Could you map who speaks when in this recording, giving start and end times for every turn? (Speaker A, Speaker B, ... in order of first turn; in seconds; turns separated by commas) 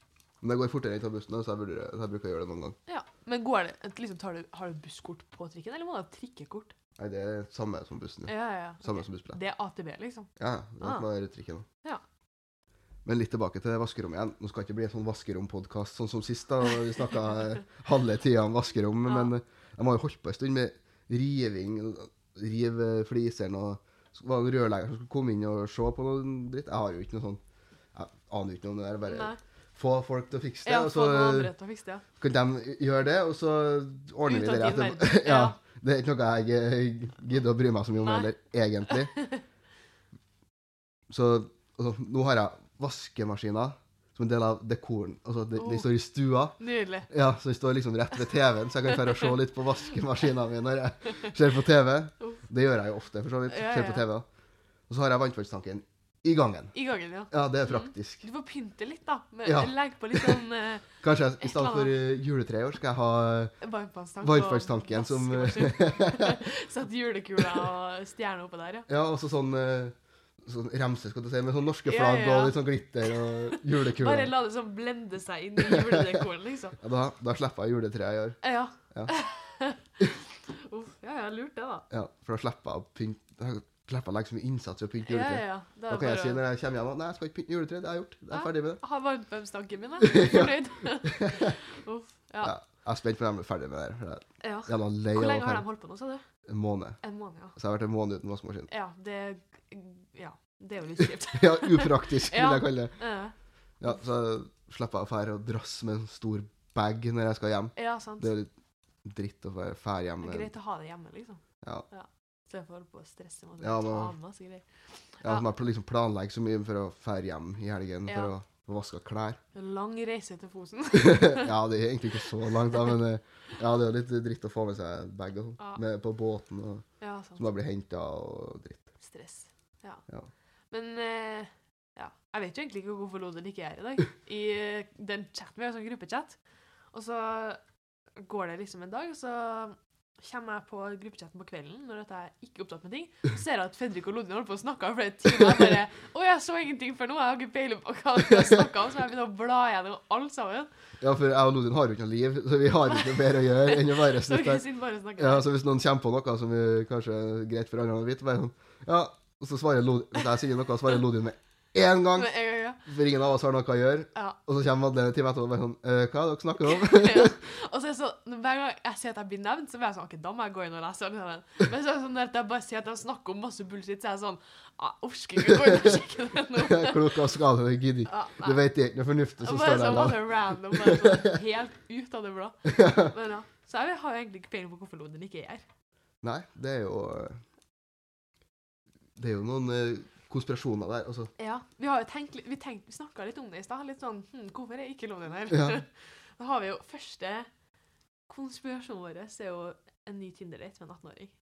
Speaker A: 0.4-2.8, Speaker B: 2.9-6.7, Speaker A: 7.0-9.4, Speaker B: 8.3-10.3, Speaker A: 10.4-11.7, Speaker B: 10.8-11.1, Speaker A: 13.1-27.4, Speaker B: 19.1-19.3, Speaker A: 27.9-31.5, Speaker B: 29.1-29.4, Speaker B: 30.6-32.0, Speaker A: 32.2-39.1, Speaker B: 34.3-35.6, Speaker B: 38.0-38.3, Speaker B: 38.9-39.4, Speaker A: 41.1-46.6, Speaker B: 45.6-45.9, Speaker B: 46.6-47.1, Speaker A: 47.1-54.3, Speaker B: 53.5-54.1, Speaker A: 54.9-56.7, Speaker B: 56.7-60.9, Speaker A: 57.3-58.2, Speaker A: 59.5-60.4, Speaker A: 61.0-63.5, Speaker B: 61.4-61.9, Speaker B: 63.6-68.9, Speaker A: 64.2-66.4, Speaker A: 68.9-74.3, Speaker B: 71.9-76.8, Speaker A: 75.6-76.2, Speaker A: 76.8-78.4, Speaker B: 78.4-81.9, Speaker A: 81.9-88.8, Speaker B: 85.0-86.4, Speaker B: 88.3-92.5, Speaker A: 90.0-91.5, Speaker A: 92.4-95.7, Speaker B: 94.4-96.2, Speaker A: 96.5-97.0, Speaker B: 97.0-97.6, Speaker A: 97.6-98.7, Speaker B: 98.7-103.3, Speaker A: 101.3-103.0, Speaker A: 103.8-108.5, Speaker B: 107.8-108.3, Speaker A: 109.0-110.5, Speaker B: 110.2-114.7, Speaker A: 113.6-114.1, Speaker B: 115.2-115.5, Speaker A: 115.2-119.4, Speaker B: 118.1-118.3, Speaker B: 119.5-121.6, Speaker A: 120.9-126.8, Speaker B: 127.0-127.4, Speaker A: 127.4-128.8, Speaker B: 129.0-130.0, Speaker B: 130.7-136.4, Speaker B: 136.9-137.6, Speaker B: 138.2-150.7, Speaker A: 151.0-154.6, Speaker B: 152.9-155.5, Speaker A: 155.2-167.3, Speaker B: 162.2-162.8, Speaker B: 166.6-177.2, Speaker A: 176.5-181.3, Speaker B: 178.1-178.6, Speaker B: 179.4-185.6, Speaker A: 182.7-183.1, Speaker A: 186.2-187.4, Speaker A: 189.2-191.3, Speaker B: 191.4-197.5, Speaker A: 195.5-195.8, Speaker B: 198.3-201.3